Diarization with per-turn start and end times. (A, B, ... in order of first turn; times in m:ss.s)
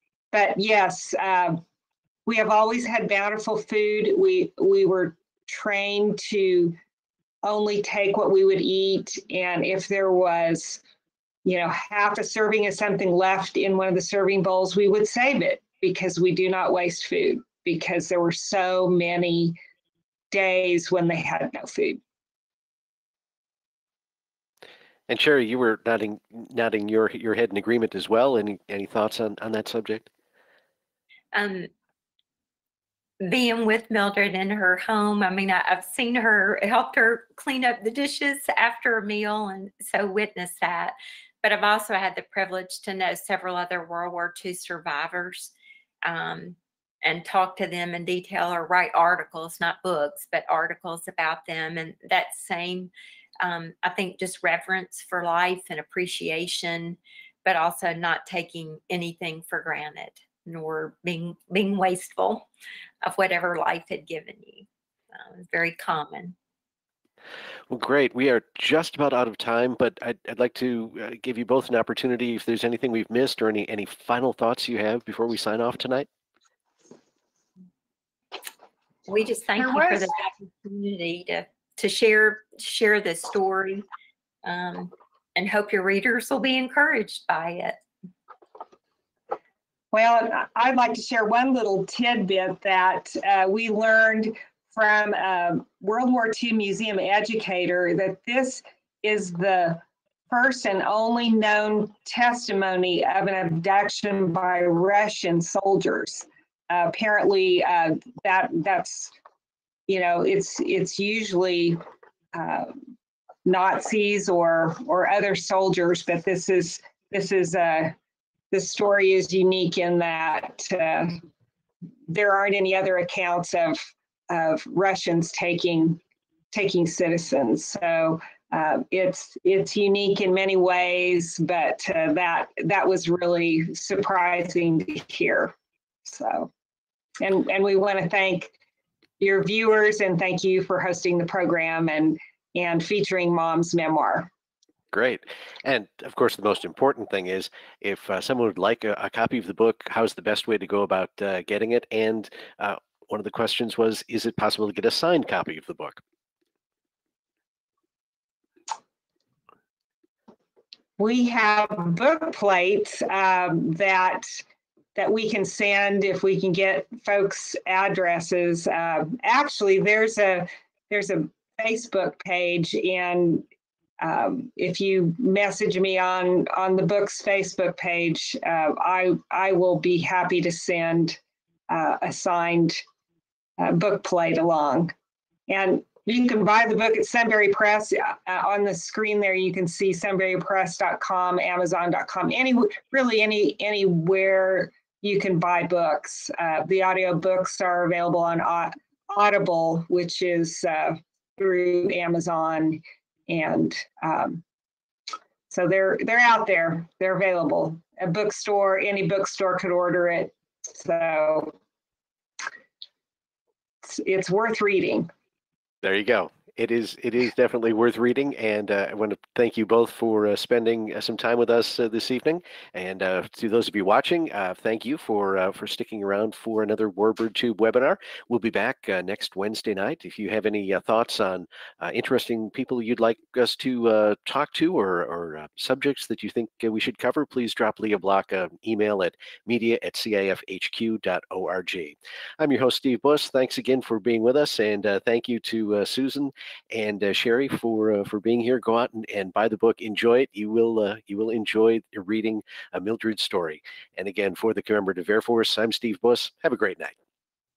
0:00.3-0:01.6 A
0:02.2-0:06.8 A
0:07.4-0:10.8 A
0:11.4-0:19.6 A
0:20.3-0:22.0 A
0:25.1-0:30.1 B
0:31.3-0:31.7 C
0:33.2-0:45.5 C
0:46.0-1:02.5 C
1:03.0-1:06.3 C
1:07.7-1:16.1 B
1:19.1-1:23.8 C
1:19.6-1:20.1 A
1:24.4-1:27.8 C
1:29.9-1:49.1 A
1:49.9-1:51.8 A
1:52.3-1:52.8 A
1:53.4-1:57.9 A
1:58.5-2:01.2 A
2:02.1-2:06.0 A
2:06.5-2:15.5 A
2:16.0-2:16.5 A
2:17.2-2:18.5 A
2:19.2-2:24.3 A
2:24.9-2:36.0 B
2:41.0-2:44.4 A
2:44.9-2:53.4 A
2:54.0-3:02.8 A
3:03.6-3:04.9 A
3:05.5-3:24.4 A
3:25.5-3:31.5 A
3:33.8-3:35.1 A
3:35.8-4:16.9 B